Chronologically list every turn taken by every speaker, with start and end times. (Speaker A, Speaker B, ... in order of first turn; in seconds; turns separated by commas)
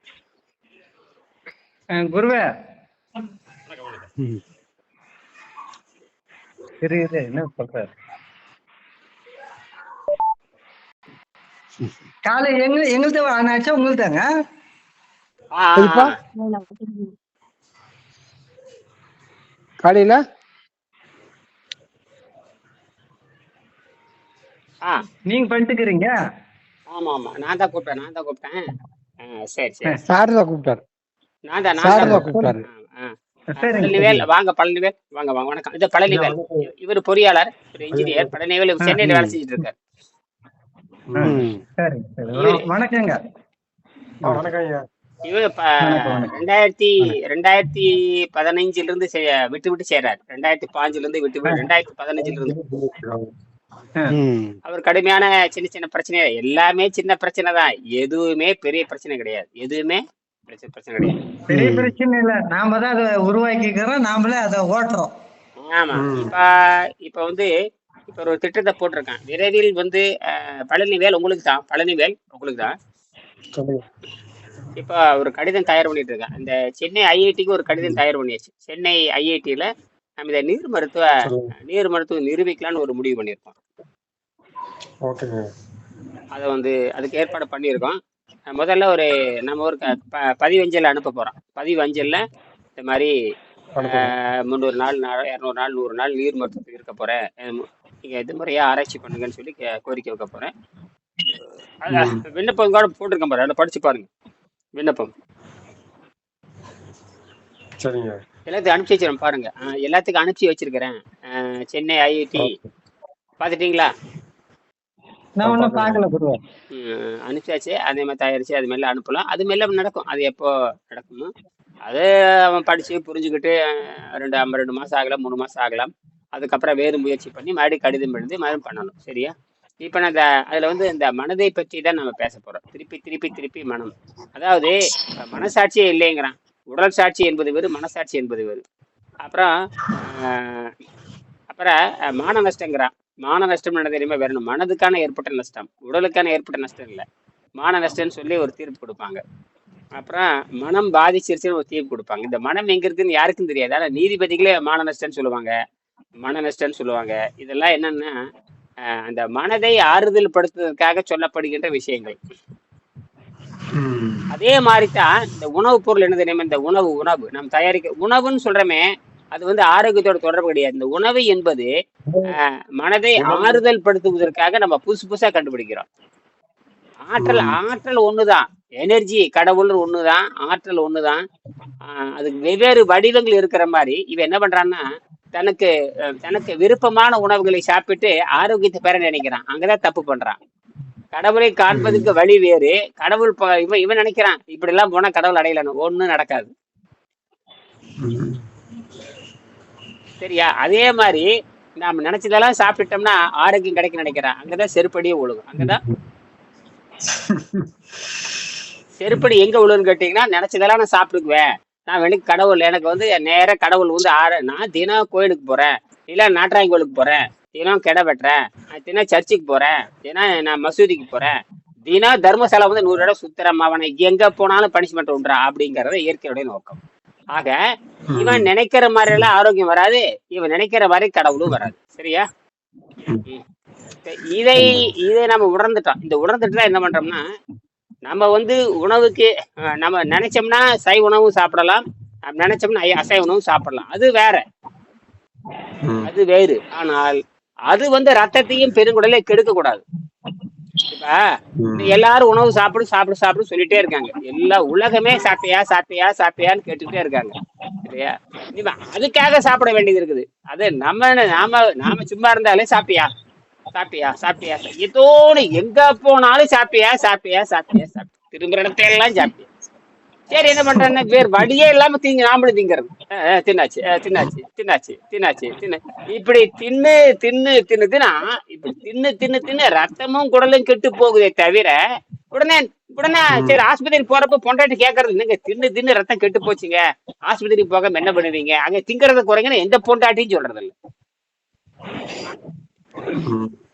Speaker A: 1.9-2.5, Speaker B: 3.7-4.0, Speaker A: 6.8-7.9, Speaker A: 12.2-14.2, Speaker B: 15.5-16.1, Speaker C: 15.8-16.6, Speaker C: 19.8-20.2, Speaker A: 25.2-26.1, Speaker B: 26.9-28.6, Speaker B: 29.2-30.0, Speaker C: 30.0-30.8, Speaker B: 31.5-39.8, Speaker C: 31.8-32.6, Speaker A: 32.2-32.5, Speaker A: 33.6-34.0, Speaker D: 36.1-36.7, Speaker D: 37.9-38.4, Speaker C: 39.0-39.4, Speaker D: 41.1-41.4, Speaker A: 41.1-43.2, Speaker C: 41.2-41.6, Speaker B: 42.3-42.7, Speaker D: 44.2-44.8, Speaker B: 45.2-52.5, Speaker A: 45.8-46.4, Speaker D: 52.2-53.3, Speaker C: 54.1-54.6, Speaker B: 54.6-61.1, Speaker C: 61.5-61.8, Speaker A: 61.5-65.1, Speaker B: 65.6-66.5, Speaker D: 66.0-66.3, Speaker B: 67.0-67.5, Speaker B: 68.1-72.7, Speaker D: 73.5-73.8, Speaker B: 74.8-79.7, Speaker B: 80.2-81.0, Speaker D: 81.2-81.5, Speaker B: 81.7-83.5, Speaker D: 85.0-85.4, Speaker B: 86.3-88.0, Speaker B: 88.5-92.2, Speaker B: 92.8-93.1, Speaker D: 93.8-94.1, Speaker B: 93.8-100.5, Speaker B: 101.8-104.1, Speaker D: 101.9-102.2, Speaker B: 104.8-105.1, Speaker D: 107.8-108.2, Speaker B: 108.5-112.5, Speaker B: 113.4-113.9, Speaker A: 115.4-116.4, Speaker D: 115.4-116.0, Speaker B: 116.7-121.3, Speaker B: 121.8-123.5, Speaker B: 124.2-138.6, Speaker B: 139.2-140.7, Speaker B: 141.5-147.0, Speaker B: 147.6-149.2, Speaker B: 149.9-155.5, Speaker B: 156.2-158.1, Speaker B: 159.0-162.2, Speaker D: 163.8-164.2, Speaker B: 164.3-171.7, Speaker B: 172.3-175.8, Speaker D: 173.2-173.6, Speaker B: 177.0-181.2, Speaker D: 177.2-177.6, Speaker B: 181.9-185.7, Speaker B: 186.2-190.4, Speaker B: 191.1-196.5, Speaker D: 191.7-192.1, Speaker D: 198.0-198.4, Speaker B: 200.2-201.3, Speaker B: 201.8-205.8, Speaker D: 207.3-207.6, Speaker B: 209.0-221.3, Speaker B: 221.9-226.8, Speaker D: 228.1-228.5, Speaker B: 228.2-232.2, Speaker B: 234.1-237.2, Speaker D: 234.6-234.9, Speaker B: 238.1-244.4, Speaker D: 245.8-246.1, Speaker B: 246.1-249.8, Speaker B: 250.9-251.2, Speaker D: 251.6-252.0, Speaker B: 251.8-257.3, Speaker B: 257.9-263.1, Speaker B: 263.7-269.5, Speaker B: 270.3-281.8, Speaker B: 282.3-290.7, Speaker D: 283.3-283.6, Speaker D: 293.2-293.5